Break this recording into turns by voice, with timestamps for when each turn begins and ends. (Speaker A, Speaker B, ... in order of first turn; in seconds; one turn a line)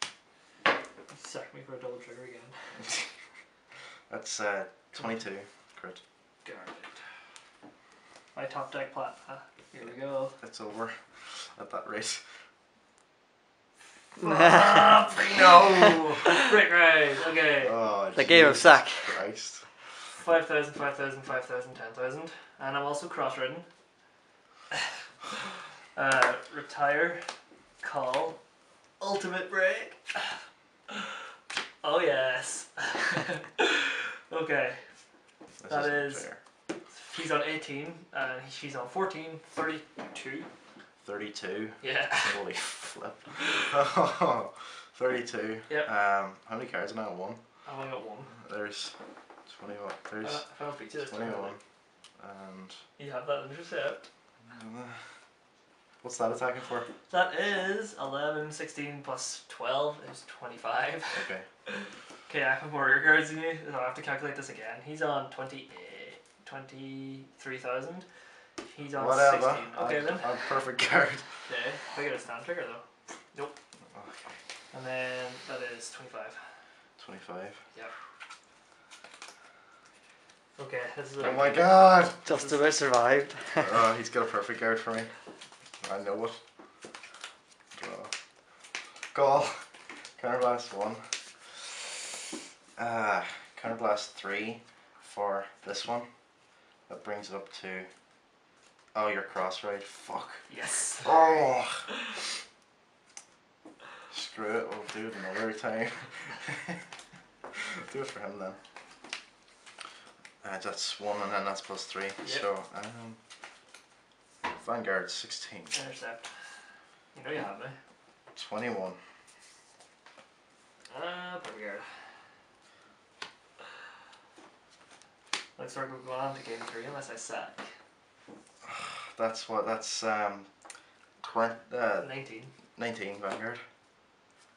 Speaker A: 1.1-2.8
Speaker B: 2.8-3.1
Speaker B: 4.1-6.0
Speaker A: 6.4-7.0
Speaker A: 8.3-10.4
Speaker B: 10.4-12.2
Speaker A: 14.2-17.8
Speaker C: 14.2-15.0
Speaker B: 15.1-16.3
Speaker B: 17.6-19.7
Speaker C: 18.1-19.2
Speaker A: 20.1-23.7
Speaker A: 25.9-27.2
Speaker A: 27.8-28.4
Speaker A: 29.0-30.4
Speaker A: 30.9-31.2
Speaker A: 31.8-34.9
Speaker B: 35.6-36.4
Speaker A: 35.7-36.3
Speaker A: 36.9-40.5
Speaker B: 41.0-47.4
Speaker A: 41.8-42.4
Speaker A: 47.6-48.3
Speaker B: 48.3-48.9
Speaker B: 49.5-51.6
Speaker A: 50.2-51.6
Speaker B: 52.2-52.8
Speaker A: 53.0-54.0
Speaker B: 54.5-55.0
Speaker B: 56.0-56.9
Speaker A: 57.1-68.1
Speaker B: 61.1-61.5
Speaker A: 68.6-70.5
Speaker B: 68.9-71.2
Speaker A: 71.5-73.6
Speaker B: 73.9-74.4
Speaker A: 74.7-76.4
Speaker B: 77.0-77.6
Speaker A: 80.6-82.8
Speaker B: 81.2-82.2
Speaker C: 82.2-83.8
Speaker B: 83.6-85.1
Speaker B: 85.8-86.4
Speaker B: 87.7-88.1
Speaker B: 89.1-89.7
Speaker B: 90.2-91.9
Speaker B: 92.8-96.1
Speaker B: 96.9-97.9
Speaker B: 98.9-100.5
Speaker A: 100.5-101.2
Speaker B: 101.0-101.9
Speaker B: 104.1-106.8
Speaker B: 107.5-108.6
Speaker B: 110.4-113.2
Speaker A: 112.2-112.5
Speaker B: 114.5-115.8
Speaker A: 115.7-116.5
Speaker A: 117.1-117.8
Speaker B: 118.3-119.0
Speaker A: 120.9-121.9
Speaker A: 125.6-127.7
Speaker B: 128.6-130.5
Speaker B: 131.2-132.2
Speaker A: 132.0-132.5
Speaker B: 132.8-133.6